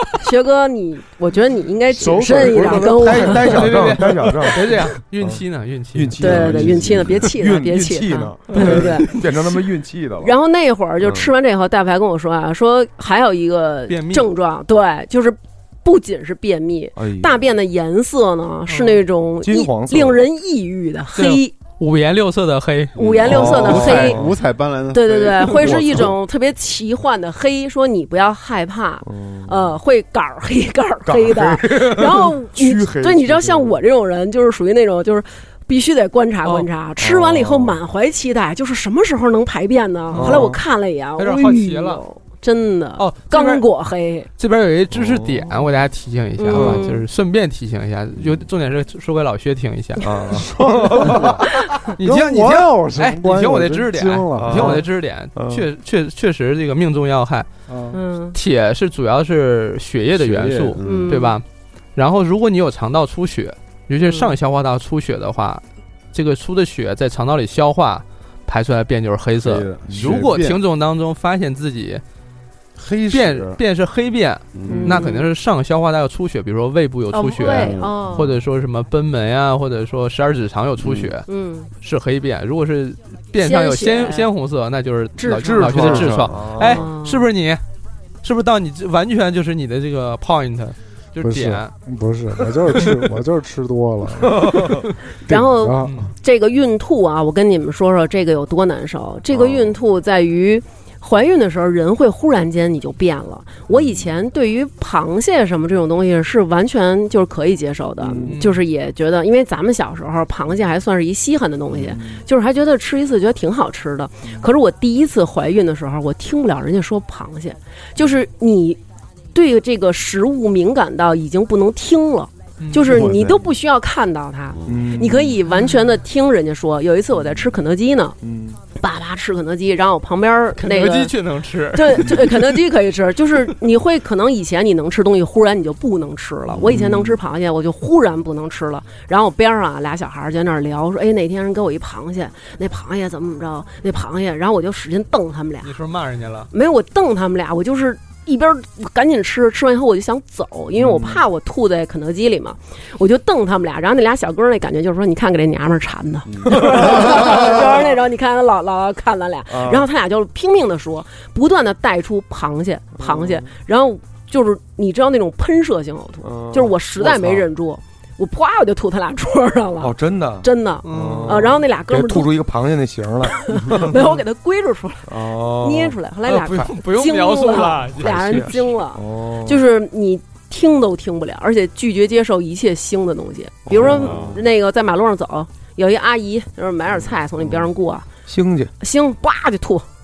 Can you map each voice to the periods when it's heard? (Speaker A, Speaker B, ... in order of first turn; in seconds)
Speaker A: 0.2-4.0, 6.2-9.2, 10.2-21.5, 23.0-24.2, 24.9-44.3, 46.4-47.0, 57.9-58.4, 60.8-61.4, 64.0-64.3, 74.8-75.3, 77.1-78.2, 81.3-81.7, 83.4-84.3, 85.2-86.0, 86.6-87.3, 95.3-118.8, 119.3-128.2, 128.7-131.1, 131.7-145.7, 146.5-172.3, 173.3-188.1, 188.8-189.8
Speaker B: 2.0-5.4, 5.9-10.3, 11.0-11.3, 17.0-17.4, 19.4-20.2, 23.0-24.3, 25.5-26.1, 29.0-29.7, 31.0-33.8, 37.0-37.8, 40.1-40.6, 44.9-45.7, 46.5-46.8, 50.0-51.5, 54.4-55.6, 74.7-75.0, 85.4-86.8, 94.2-94.8, 99.3-99.7, 103.7-104.1, 108.0-108.3, 111.7-112.2, 124.7-125.4, 127.2-127.5, 128.2-128.6, 136.6-137.2, 150.7-151.2, 156.5-157.9, 159.5-159.9, 163.0-163.5, 166.2-167.5, 169.8-174.0, 175.1-176.0, 178.0-179.6, 183.7-184.4, 187.4-187.7, 188.2-188.7
Speaker C: 2.0-3.3, 50.4-51.4, 52.0-54.8, 57.7-58.0, 91.2-94.7, 95.3-96.0
Speaker D: 3.2-6.8, 8.5-9.3, 13.9-14.3, 18.7-19.0, 21.1-23.8, 40.1-40.5, 41.2-42.0, 43.0-43.6, 44.4-50.0, 51.9-57.5, 58.3-61.4, 61.9-72.0, 73.1-81.2, 81.8-87.6, 88.2-91.7, 95.8-96.1, 108.3-108.6, 122.6-122.9, 130.6-132.6, 145.6-146.5, 170.8-171.5, 176.3-178.7
Speaker E: 23.2-26.1, 60.1-61.2, 69.4-70.6, 72.8-73.6, 74.5-74.9, 77.4-78.2, 80.8-81.1, 85.8-86.3, 122.8-123.4, 124.5-125.0, 156.3-157.4, 183.8-184.3